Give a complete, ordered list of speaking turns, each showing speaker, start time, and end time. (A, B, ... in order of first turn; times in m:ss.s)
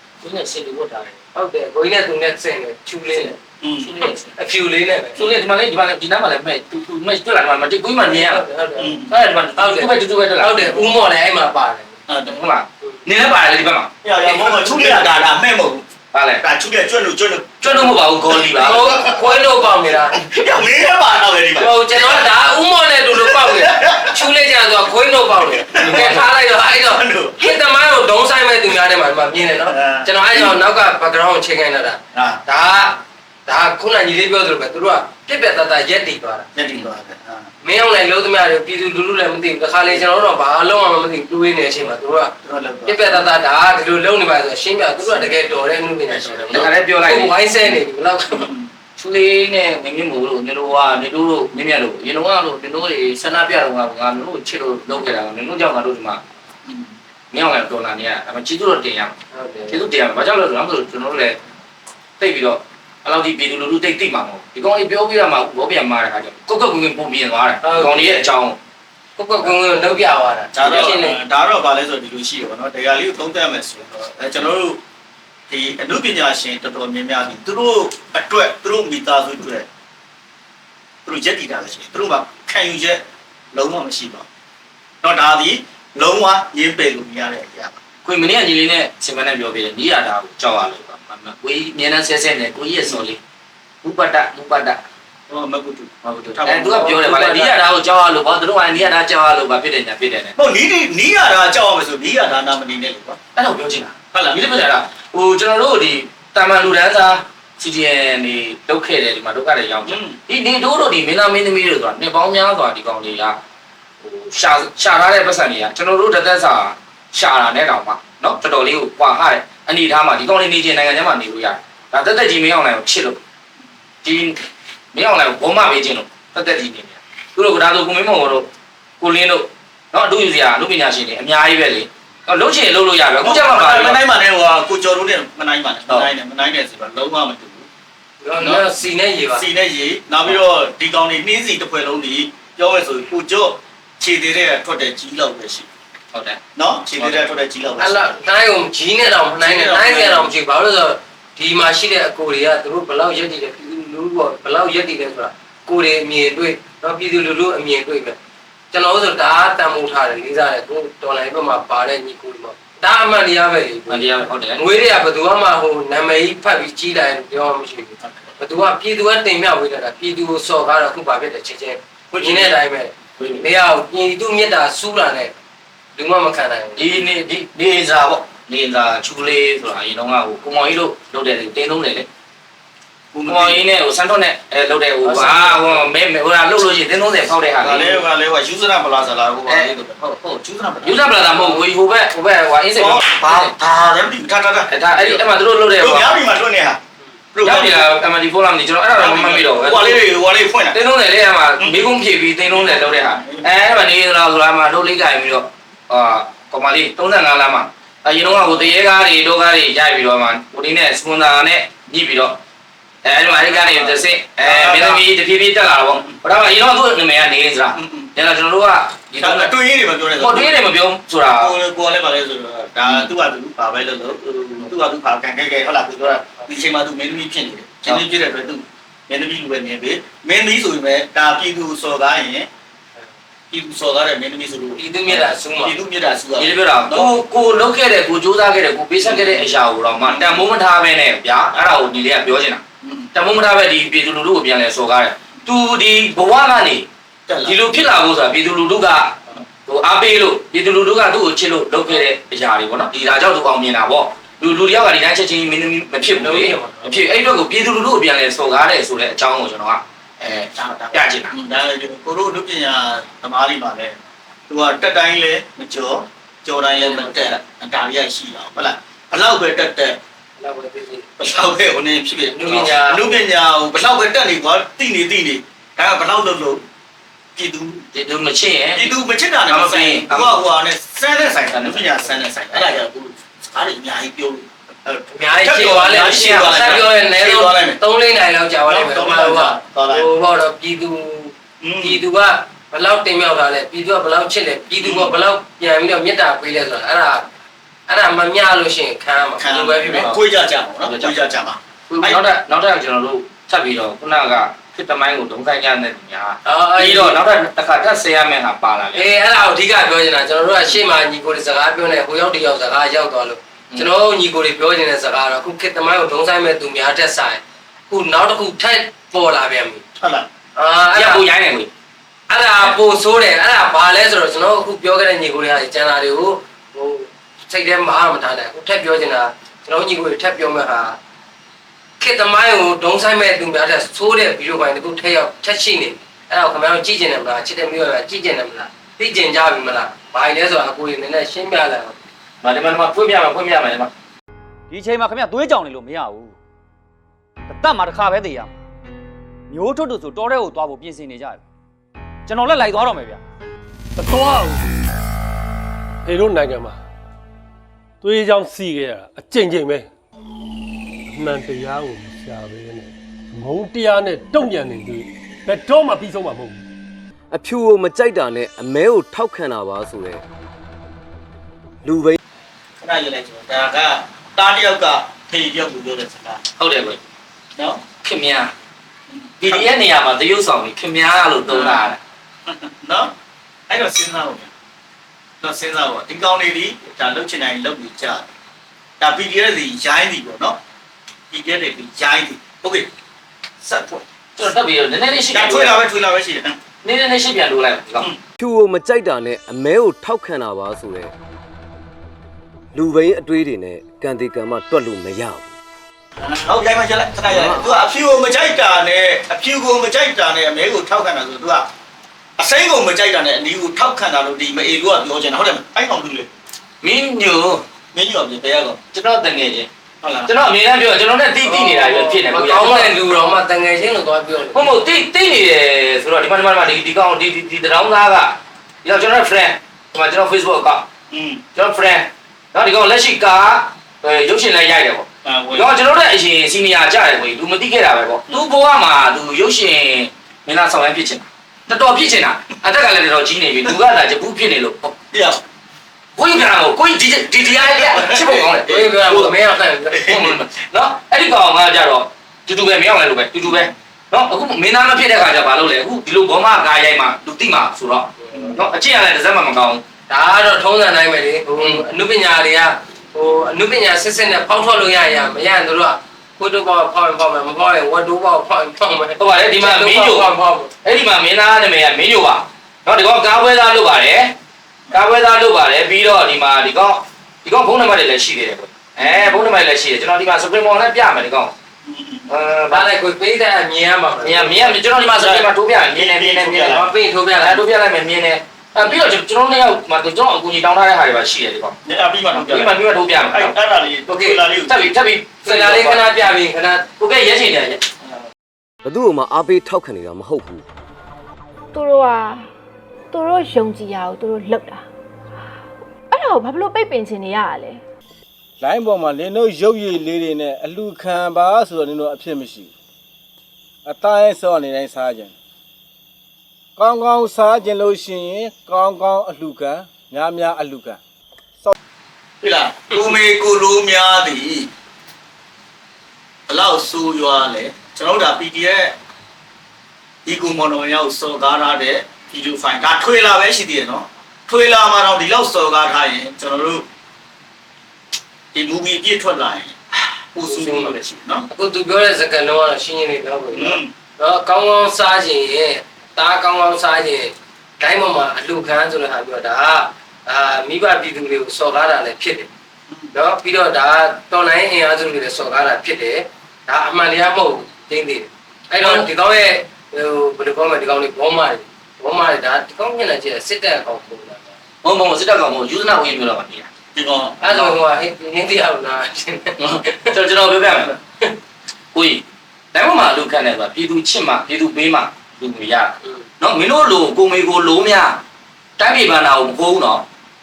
0:00.2-0:01.2 A
0:01.4-0:03.4 B
0:03.6-0:03.9 C
0:03.8-0:04.3 A
0:04.0-0:05.2 B
0:05.2-0:08.4 A
0:08.0-0:11.9 B
0:08.8-0:09.1 C
0:09.1-0:10.8 A
0:12.1-0:12.4 C
0:12.3-0:15.1 A
0:14.0-0:15.8 C
0:14.3-0:15.0 B
0:16.1-0:16.4 A
0:16.4-0:17.9 C
0:17.6-0:19.0 A
0:18.5-0:22.3 C
0:18.6-0:20.3 B
0:21.6-0:36.5 B
0:23.2-0:24.3 C
0:25.5-0:26.2 C
0:25.8-0:26.2 A
0:26.9-0:27.6 C
0:29.7-0:30.5 C
0:32.1-0:32.4 C
0:36.6-0:37.5 C
0:37.6-0:42.3 B
0:42.4-0:43.3 C
0:42.9-0:48.5 B
0:46.3-0:46.7 C
0:46.5-0:47.4 A
0:48.3-0:48.7 C
0:49.0-0:56.2 A
0:57.3-0:59.2 A
0:59.3-0:59.8 B
0:59.7-1:01.4 A
1:02.2-1:08.6 A
1:07.6-1:08.3 B
1:09.2-1:11.2 B
1:10.6-1:14.8 C
1:15.5-1:19.7 C
1:21.1-1:23.0 C
1:23.5-1:24.3 C
1:25.0-1:27.8 C
1:28.0-1:33.2 A
1:33.8-1:34.8 A
1:35.3-1:36.9 C
1:36.0-1:40.4 A
1:36.8-1:37.5 B
1:40.4-1:43.2 C
1:43.4-1:53.4 A
1:44.1-1:44.5 C
1:49.9-1:50.2 C
1:54.0-2:03.2 A
2:04.0-2:04.4 A
2:04.9-2:08.5 A
2:09.0-2:14.0 A
2:13.2-2:17.7 C
2:18.2-2:19.4 B
2:18.4-2:18.7 C
2:19.3-2:25.7 C
2:26.1-2:26.4 A
2:26.6-2:28.1 C
2:27.0-2:27.4 A
2:27.8-2:38.2 B
2:29.4-2:30.3 C
2:38.7-2:55.3 B
2:43.9-2:44.6 A
2:52.1-2:52.6 C
2:53.2-2:53.5 A
2:56.0-2:56.9 B
2:56.8-3:02.1 A
3:03.1-3:03.6 C
3:03.3-3:08.1 A
3:05.2-3:05.5 C
3:07.6-3:11.6 C
3:09.5-3:09.7 A
3:10.8-3:13.5 A
3:12.8-3:15.2 C
3:14.7-3:16.2 A
3:15.8-3:16.8 C
3:17.3-3:17.9 C
3:17.4-3:20.1 A
3:19.0-3:20.8 C
3:20.7-3:32.4 A
3:21.6-3:21.9 C
3:22.5-3:23.5 C
3:28.2-3:28.7 C
3:33.0-3:39.5 A
3:33.3-3:35.0 C
3:37.7-3:38.1 C
3:39.2-3:40.7 C
3:40.2-3:41.5 A
3:41.3-3:52.5 C
3:53.5-3:57.1 C
3:54.8-3:55.8 B
3:56.4-4:02.6 A
3:59.0-3:59.5 C
4:00.1-4:00.5 C
4:02.8-4:03.1 C
4:03.1-4:06.9 A
4:07.3-4:07.6 C
4:07.4-4:21.4 A
4:16.2-4:17.1 B
4:20.5-4:24.0 C
4:24.5-4:30.0 C
4:26.7-4:27.4 B
4:30.4-4:31.1 B
4:31.2-4:36.6 C
4:32.3-4:33.3 B
4:37.4-4:37.9 C
4:37.9-4:40.4 A
4:38.8-4:47.8 C
4:41.5-4:41.9 A
4:45.1-4:57.3 B
4:45.9-4:46.7 A
4:48.7-4:50.1 C
4:51.6-4:52.0 C
4:54.8-4:55.1 C
4:57.9-5:00.2 B
4:59.4-5:02.2 C
5:00.8-5:01.2 A
5:01.9-5:09.1 A
5:06.4-5:07.2 B
5:09.0-5:19.8 B
5:20.0-5:20.3 C
5:20.6-5:21.3 B
5:20.9-5:21.7 A
5:22.3-5:31.0 B
5:32.0-5:42.0 B
5:42.4-5:43.9 A
5:44.7-5:46.4 D
5:47.5-5:48.5 D
5:49.5-5:51.4 D
5:52.3-5:53.2 D
5:54.0-5:54.7 E
5:56.0-5:56.8 E
5:58.0-5:59.9 E
6:01.1-6:06.6 E
6:07.3-6:10.2 F
6:11.8-6:12.2 F
6:12.8-6:16.4 C
6:16.6-6:17.0 A
6:17.6-6:17.8 C
6:18.0-6:18.5 A
6:19.1-6:19.7 C
6:19.4-6:22.0 A
6:21.5-6:21.9 C
6:22.5-6:23.1 C
6:23.7-6:24.5 C
6:25.4-6:28.3 C
6:29.0-6:30.6 C
6:31.3-6:32.9 C
6:33.6-6:34.0 C
6:34.4-6:35.8 A
6:35.3-6:36.5 C
6:36.8-6:38.1 A
6:38.4-6:41.1 F
6:42.7-6:45.5 F
6:46.2-6:51.7 C
6:47.3-6:47.8 F
6:52.4-6:56.3 C
6:56.8-6:57.6 A
6:57.9-6:58.8 C
6:58.9-6:59.7 A
7:00.0-7:00.3 C
7:00.2-7:03.0 A
7:01.4-7:04.7 B
7:04.5-7:10.9 A
7:11.1-7:11.4 C
7:11.6-7:25.0 A
7:15.2-7:15.7 C
7:25.1-7:25.4 C
7:26.2-7:29.3 A
7:27.7-7:28.9 C
7:28.6-7:30.2 B
7:29.9-7:30.4 C
7:30.1-7:39.8 A
7:38.2-7:38.5 B
7:40.1-7:50.7 B
7:49.2-7:50.3 A
7:50.8-7:54.4 A
7:54.9-8:01.5 A
7:59.0-7:59.4 C
8:01.8-8:02.3 C
8:02.3-8:02.9 A
8:02.7-8:05.3 B
8:04.2-8:11.8 A
8:06.0-8:06.9 C
8:06.5-8:07.7 B
8:11.8-8:14.8 C
8:12.3-8:13.6 A
8:14.1-8:14.4 B
8:14.7-8:16.3 A
8:15.4-8:16.9 B
8:17.0-8:17.8 A
8:18.8-8:20.6 F
8:21.7-8:22.5 G
8:23.1-8:24.9 G
8:26.1-8:27.8 G
8:28.6-8:32.7 H
8:33.9-8:35.4 H
8:36.8-8:41.0 H
8:42.4-8:44.7 C
8:46.5-8:49.0 C
8:50.3-8:56.8 C
8:58.5-8:59.8 C
9:00.4-9:01.5 C
9:00.5-9:01.0 B
9:01.5-9:12.5 B
9:03.5-9:03.9 C
9:13.1-9:24.5 B
9:18.8-9:19.1 A
9:24.8-9:26.7 A
9:26.9-9:27.8 C
9:27.4-9:30.1 B
9:29.6-9:31.0 A
9:31.9-9:38.2 A
9:38.8-9:40.0 A